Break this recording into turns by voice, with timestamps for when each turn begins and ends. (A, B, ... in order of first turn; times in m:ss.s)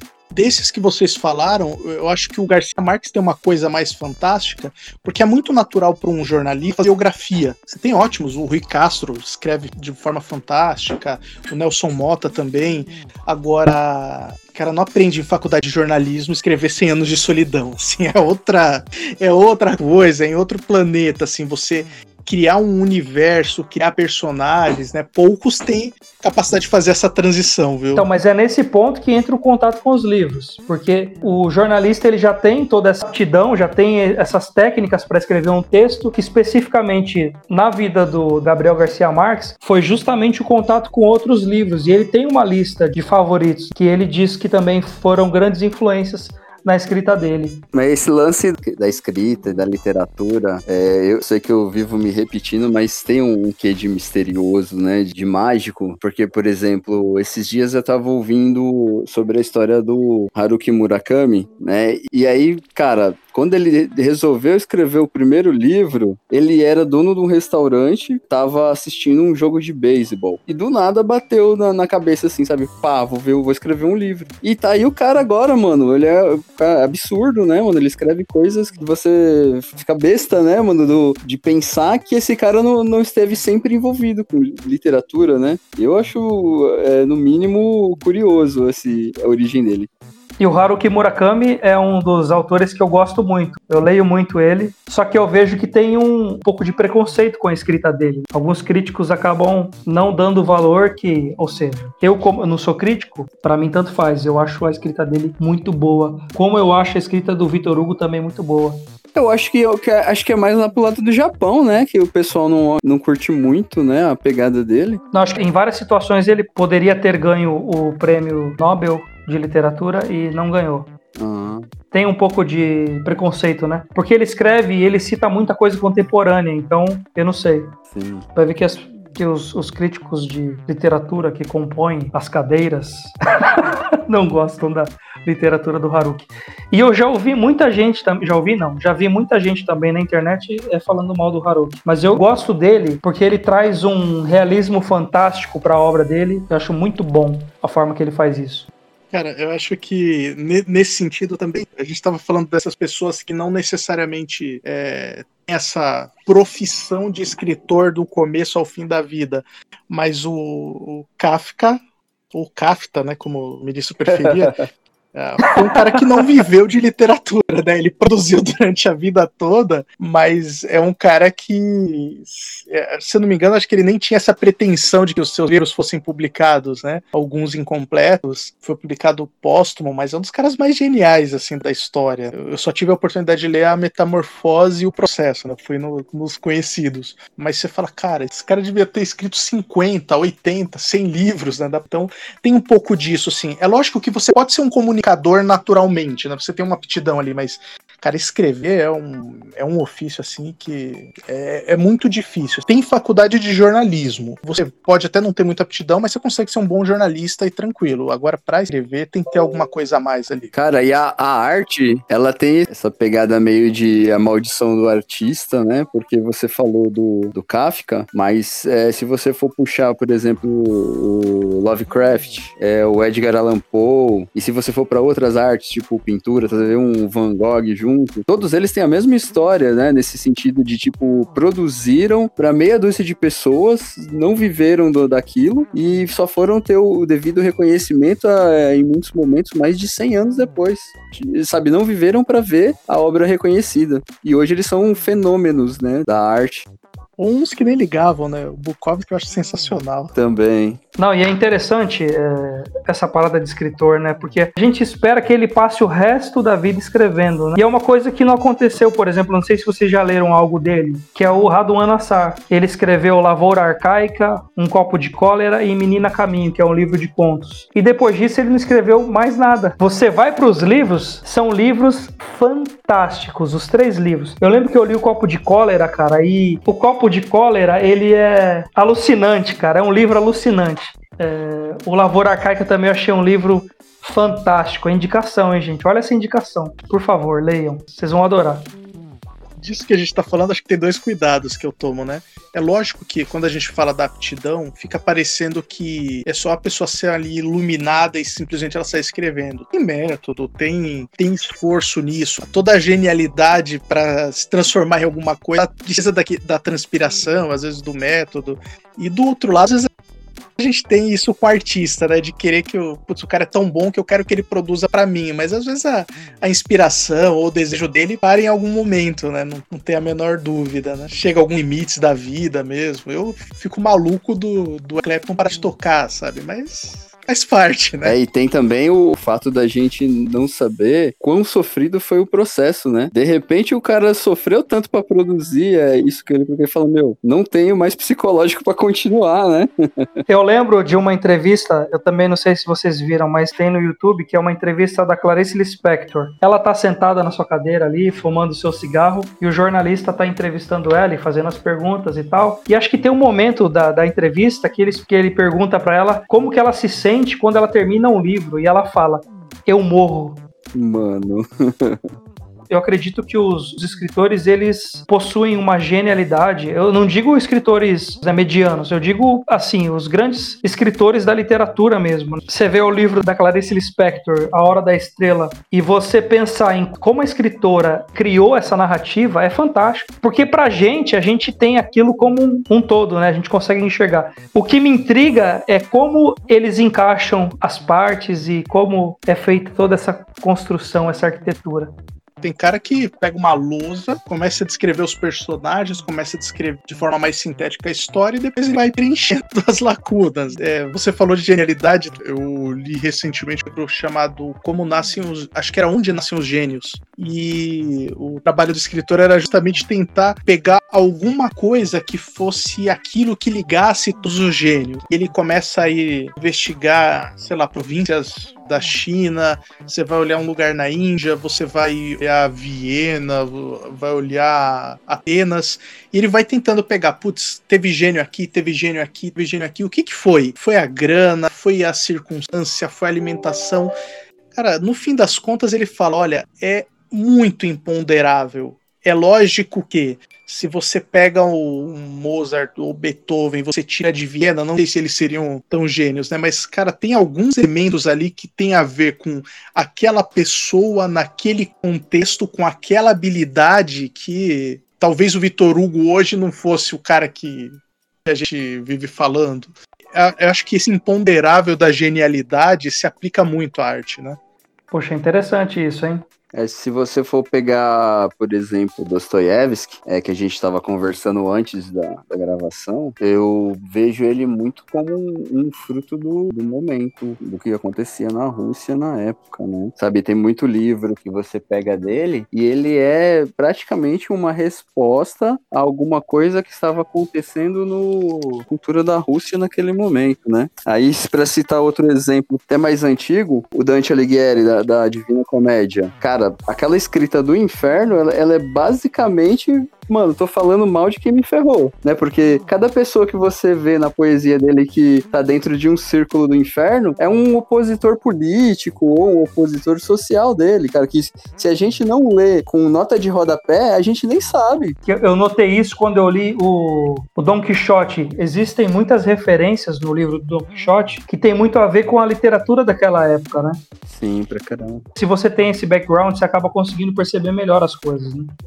0:00.3-0:28.1 A
0:28.0-0:47.6 B
0:47.7-1:29.9 C
1:30.4-1:48.9 B
1:49.2-1:55.0 C
1:55.1-2:00.9 B
2:01.2-2:01.7 C
2:01.9-2:07.8 B
2:07.9-2:08.3 C
2:08.4-2:28.7 B
2:29.1-2:41.8 A
2:42.3-3:30.5 A
2:44.1-2:44.5 C
3:30.5-4:06.7 C
4:07.2-4:10.1 A
4:10.2-4:10.8 C
4:11.0-4:48.7 B
4:49.6-5:09.9 A
5:10.6-5:28.2 A
5:28.0-5:40.1 C
5:40.3-6:00.4 B
6:00.7-6:02.0 C
6:02.7-6:31.9 B
6:32.4-7:14.0 A
7:14.6-7:44.4 A
7:44.9-7:46.2 B
7:46.5-8:35.0 C
8:35.1-8:43.8 B
8:44.1-8:45.1 C
8:45.2-8:48.5 B